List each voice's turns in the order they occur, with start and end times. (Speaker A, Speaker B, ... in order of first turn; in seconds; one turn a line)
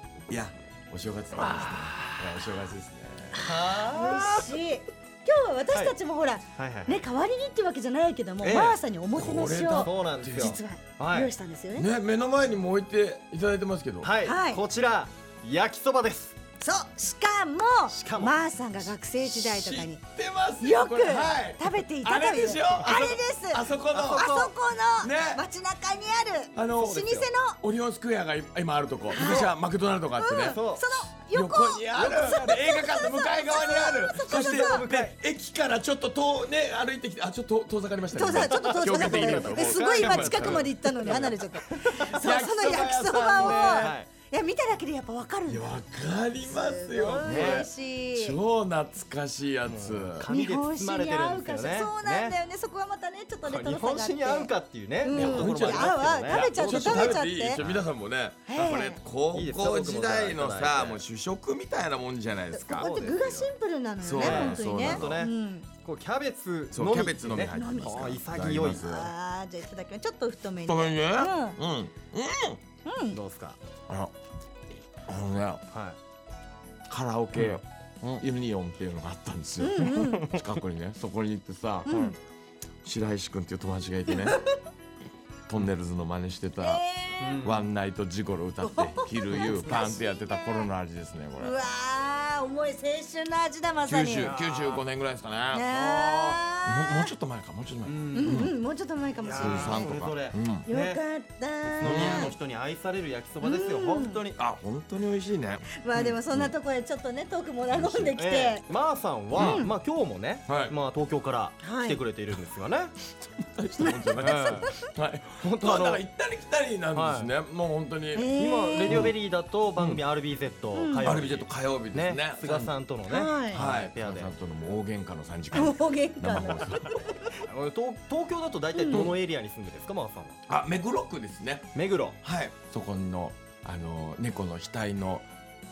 Speaker A: 0.3-3.5
Speaker B: 1.4-2.2
Speaker C: 3.4-11.9
Speaker B: 3.4-4.5
Speaker B: 6.6-7.0
Speaker B: 8.4-8.8
Speaker A: 8.4-10.6
Speaker B: 9.8-11.3
Speaker A: 11.7-14.1
Speaker B: 14.0-16.4
Speaker C: 14.2-14.6
Speaker C: 16.6-20.0
Speaker B: 17.9-18.3
Speaker A: 19.2-24.4
Speaker C: 20.6-27.6
Speaker B: 23.9-24.5
Speaker A: 25.0-25.4
Speaker A: 26.5-30.6
Speaker C: 29.1-29.5
Speaker B: 29.1-29.5
Speaker C: 30.2-34.9
Speaker B: 30.4-30.8
Speaker A: 31.2-41.3
Speaker B: 31.9-32.6
Speaker B: 34.3-35.1
Speaker C: 38.1-45.8
Speaker B: 38.3-42.2
Speaker A: 42.1-43.9
Speaker B: 43.4-44.1
Speaker A: 45.5-50.3
Speaker C: 46.4-48.4
Speaker B: 47.0-47.7
Speaker B: 49.6-52.4
Speaker C: 50.3-54.5
Speaker B: 53.4-57.9
Speaker C: 55.0-57.6
Speaker A: 55.1-62.9
Speaker C: 58.5-59.0
Speaker B: 58.5-58.8
Speaker B: 59.3-61.0
Speaker C: 62.5-65.7
Speaker B: 62.8-63.5
Speaker A: 64.0-65.2
Speaker B: 64.1-68.9
Speaker A: 66.7-69.1
Speaker C: 67.4-68.1
Speaker C: 68.7-71.6
Speaker A: 70.6-72.6
Speaker C: 72.8-73.2
Speaker B: 73.1-73.6
Speaker A: 75.1-75.6
Speaker B: 75.7-76.0
Speaker A: 76.9-82.0
Speaker B: 77.3-77.6
Speaker C: 79.6-80.3
Speaker B: 79.8-80.4
Speaker C: 81.8-82.2
Speaker B: 81.9-82.1
Speaker A: 82.8-84.4
Speaker C: 84.1-84.4
Speaker A: 85.5-86.8
Speaker C: 86.6-87.5
Speaker B: 87.2-87.7
Speaker A: 87.4-91.6
Speaker C: 88.6-90.7
Speaker B: 89.3-89.9
Speaker C: 91.4-94.3
Speaker A: 93.8-95.8
Speaker B: 94.2-94.8
Speaker C: 95.5-97.1
Speaker B: 95.7-96.4
Speaker A: 96.6-98.5
Speaker B: 97.8-98.5
Speaker C: 98.2-99.9
Speaker B: 99.2-101.0
Speaker A: 99.4-100.7
Speaker C: 100.7-102.3
Speaker B: 101.6-104.4
Speaker A: 101.8-102.3
Speaker C: 103.4-104.2
Speaker A: 104.3-105.7
Speaker C: 105.7-108.6
Speaker A: 107.7-108.2
Speaker B: 108.2-112.9
Speaker A: 109.4-109.7
Speaker C: 109.4-109.7
Speaker A: 110.5-110.7
Speaker C: 111.6-112.0
Speaker A: 113.2-118.3
Speaker C: 113.8-114.9
Speaker B: 114.2-114.7
Speaker B: 115.4-116.0
Speaker B: 116.9-117.3
Speaker C: 118.1-119.1
Speaker B: 118.3-124.3
Speaker A: 118.9-119.1
Speaker C: 120.7-121.2
Speaker A: 121.0-122.7
Speaker C: 123.1-123.6
Speaker A: 123.5-127.0
Speaker C: 125.5-127.4
Speaker B: 127.4-130.4
Speaker C: 128.7-129.1
Speaker A: 130.5-135.2
Speaker B: 131.7-132.2